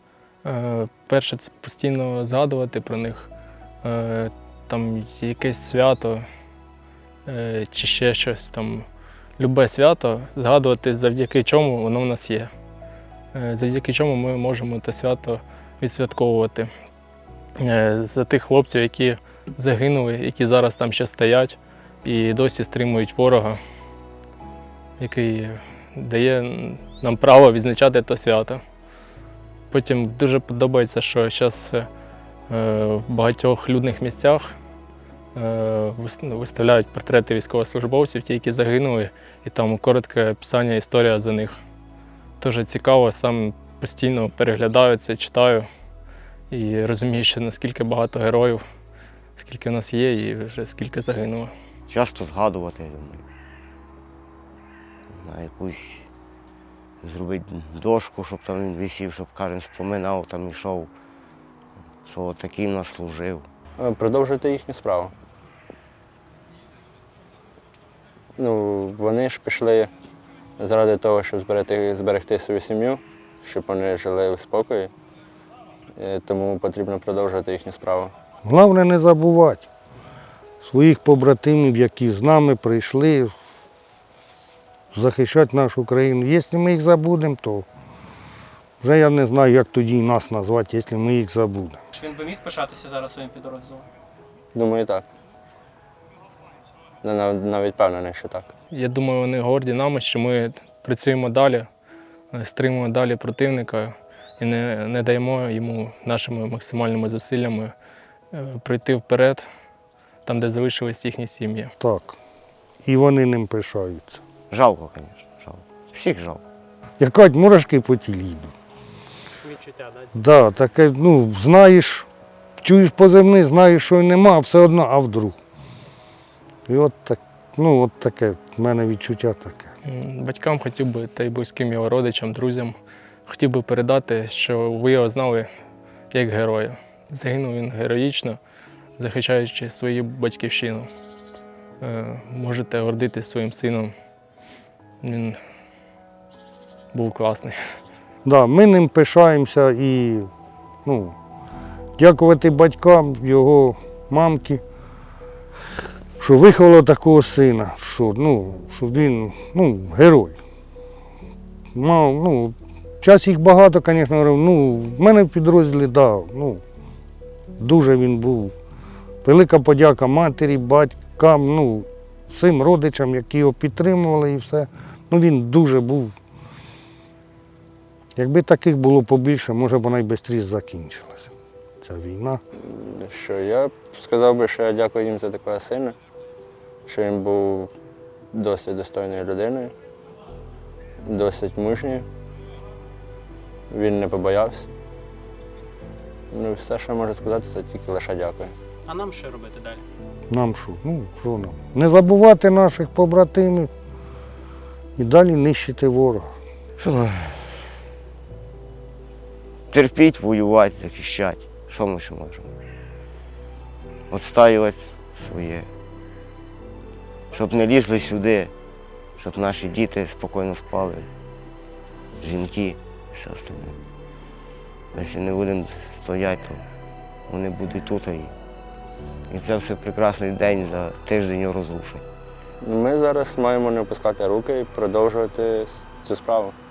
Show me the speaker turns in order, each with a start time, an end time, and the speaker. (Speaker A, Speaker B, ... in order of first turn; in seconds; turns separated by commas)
Speaker A: 0.4-3.3, Speaker A: 3.8-6.3, Speaker A: 7.3-8.9, Speaker A: 9.4-12.5, Speaker A: 13.3-16.7, Speaker A: 17.6-23.6, Speaker A: 25.0-28.6, Speaker A: 29.7-31.9, Speaker A: 32.5-34.5, Speaker A: 35.4-41.6, Speaker A: 42.4-45.7, Speaker A: 46.5-48.6, Speaker A: 49.4-51.5, Speaker B: 51.9-53.3, Speaker B: 55.1-56.1, Speaker B: 57.0-60.9, Speaker B: 62.0-63.5, Speaker C: 63.8-65.1, Speaker C: 68.4-69.9, Speaker C: 70.6-74.9, Speaker C: 76.0-78.1, Speaker D: 78.5-79.7, Speaker D: 80.6-83.3, Speaker D: 84.9-87.7, Speaker D: 88.8-91.8, Speaker E: 91.9-93.9, Speaker C: 94.5-95.0, Speaker C: 97.0-98.5, Speaker A: 98.7-101.7, Speaker A: 102.3-107.7, Speaker A: 108.3-109.5, Speaker A: 110.2-111.7, Speaker D: 111.8-112.2, Speaker D: 112.8-114.2, Speaker B: 114.5-116.4, Speaker D: 117.0-118.5, Speaker E: 119.4-120.2, Speaker D: 120.1-122.1, Speaker D: 122.6-125.4, Speaker D: 126.7-129.7, Speaker A: 129.8-135.5, Speaker A: 136.1-138.4, Speaker A: 139.0-140.9, Speaker A: 141.8-143.9, Speaker A: 145.0-145.4, Speaker A: 146.9-147.8, Speaker D: 148.2-150.3, Speaker D: 150.8-151.2, Speaker D: 152.0-154.6, Speaker D: 156.2-160.4, Speaker D: 161.7-166.6, Speaker D: 167.6-168.5, Speaker D: 169.2-176.1, Speaker D: 178.2-181.3, Speaker D: 181.8-182.4, Speaker C: 182.6-186.0, Speaker C: 186.9-187.7, Speaker C: 188.3-189.7, Speaker C: 191.1-192.1, Speaker C: 193.7-194.7, Speaker C: 196.3-198.5, Speaker E: 198.9-199.8, Speaker D: 200.3-203.7, Speaker D: 205.0-206.3, Speaker B: 206.8-207.7, Speaker B: 209.7-212.5, Speaker B: 214.1-215.7, Speaker B: 217.3-218.5, Speaker B: 219.2-221.1, Speaker B: 222.2-223.8, Speaker B: 224.9-226.6, Speaker B: 227.3-228.3, Speaker B: 229.3-232.1, Speaker C: 232.6-236.5